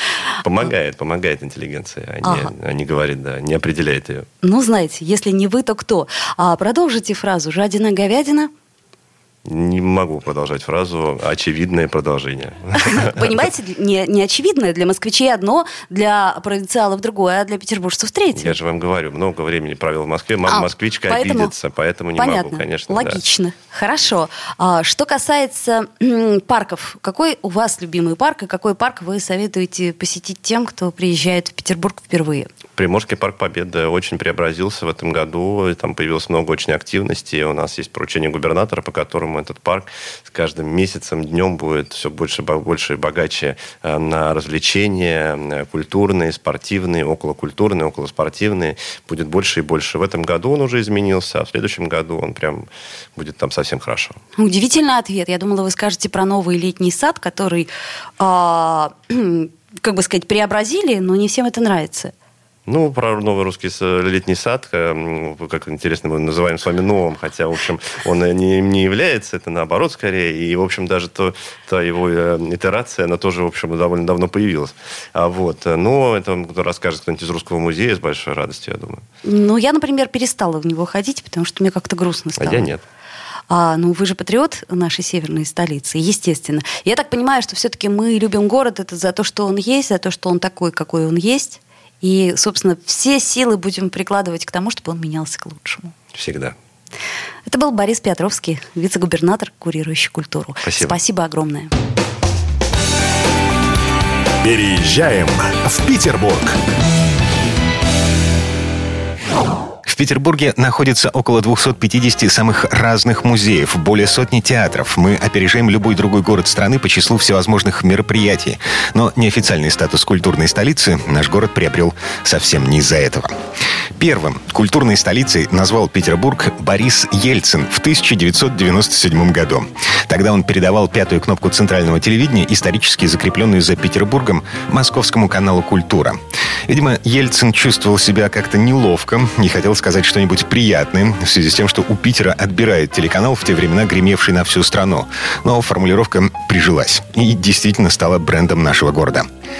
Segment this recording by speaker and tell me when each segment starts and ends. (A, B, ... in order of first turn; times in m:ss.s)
0:00.4-0:04.3 A
0:02.2-0:02.5 B
0:04.4-0:08.5 B
0:09.4-0:13.2 A
0:12.8-0:18.5 B
0:18.3-0:23.2 A
0:20.5-0:21.5 B
0:22.2-0:32.5 B
0:32.8-0:54.2 A
0:54.4-1:02.1 B
1:02.6-1:19.0 A
1:19.2-1:22.7 B
1:22.4-1:22.8 A
1:23.5-1:35.9 B
1:36.1-1:36.6 A
1:37.4-1:41.7 B
1:40.6-1:41.0 A
1:44.4-1:46.6 C
1:49.8-2:03.3 D
2:04.0-2:16.2 D
2:16.7-2:29.2 D